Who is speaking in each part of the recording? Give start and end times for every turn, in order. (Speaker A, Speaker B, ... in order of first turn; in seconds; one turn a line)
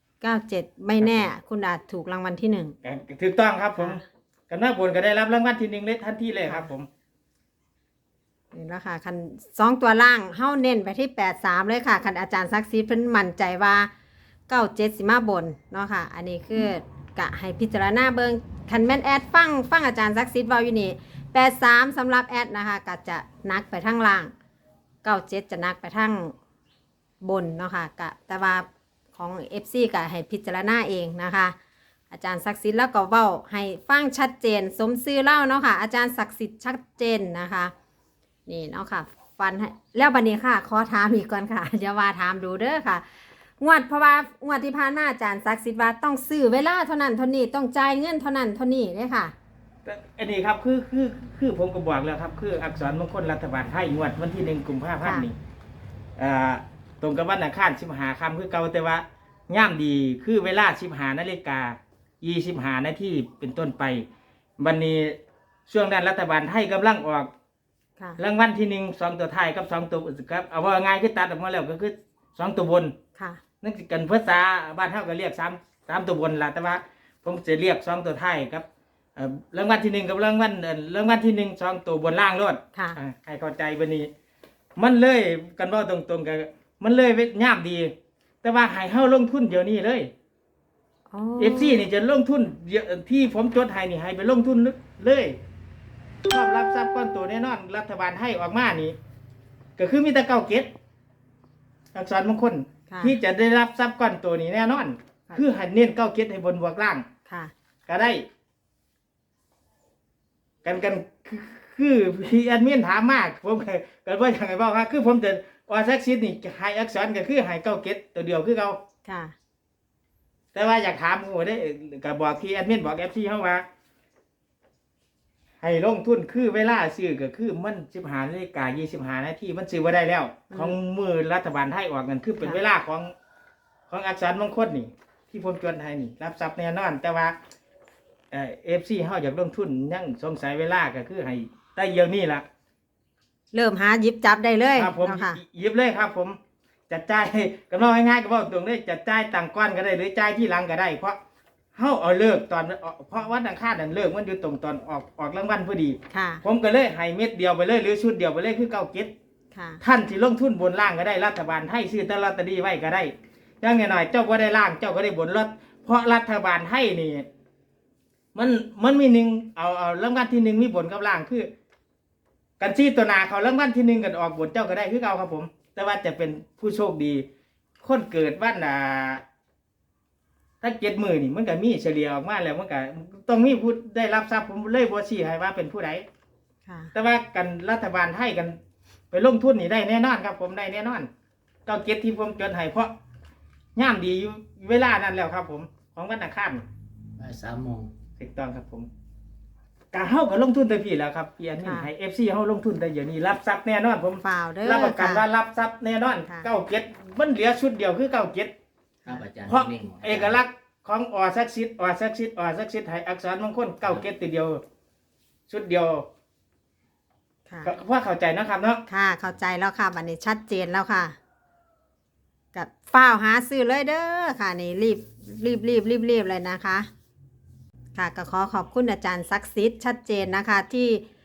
Speaker A: 0.2-2.8
Speaker B: 1.0-1.3
Speaker B: 2.8-6.9
Speaker A: 8.5-13.9
Speaker A: 14.5-24.3
Speaker A: 25.0-26.3
Speaker A: 27.2-31.6
Speaker A: 32.1-37.7
Speaker A: 38.5-43.0
Speaker A: 43.6-49.3
Speaker B: 49.9-55.4
Speaker A: 55.0-55.3
Speaker B: 56.2-64.1
Speaker B: 64.6-65.2
Speaker B: 65.7-67.3
Speaker B: 68.2-72.9
Speaker B: 73.6-78.7
Speaker B: 79.2-84.1
Speaker B: 84.8-87.9
Speaker B: 88.4-90.1
Speaker A: 91.1-91.9
Speaker B: 91.4-95.4
Speaker B: 96.3-99.0
Speaker B: 99.8-100.7
Speaker B: 101.9-107.0
Speaker A: 102.9-103.2
Speaker B: 107.9-108.2
Speaker B: 110.6-118.8
Speaker A: 119.1-119.3
Speaker B: 120.5-123.6
Speaker B: 125.6-133.1
Speaker B: 133.9-137.4
Speaker B: 138.3-142.4
Speaker A: 143.5-145.4
Speaker B: 144.8-146.4
Speaker B: 146.9-151.2
Speaker B: 151.8-159.1
Speaker A: 156.1-156.4
Speaker A: 159.5-159.8
Speaker B: 159.8-167.3
Speaker B: 168.3-171.5
Speaker B: 172.6-177.2
Speaker B: 177.8-179.2
Speaker B: 180.6-186.1
Speaker A: 186.7-186.9
Speaker B: 186.9-188.6
Speaker B: 189.1-191.1
Speaker B: 191.7-192.9
Speaker B: 193.8-196.6
Speaker C: 197.2-197.9
Speaker B: 198.2-198.9
Speaker B: 199.9-208.5
Speaker A: 201.6-201.9
Speaker A: 204.2-205.3
Speaker C: 209.1-210.4
Speaker B: 209.5-214.6
Speaker B: 215.5-216.1
Speaker B: 217.6-218.8
Speaker A: 218.9-221.2
Speaker A: 222.5-226.9
Speaker A: 227.9-231.1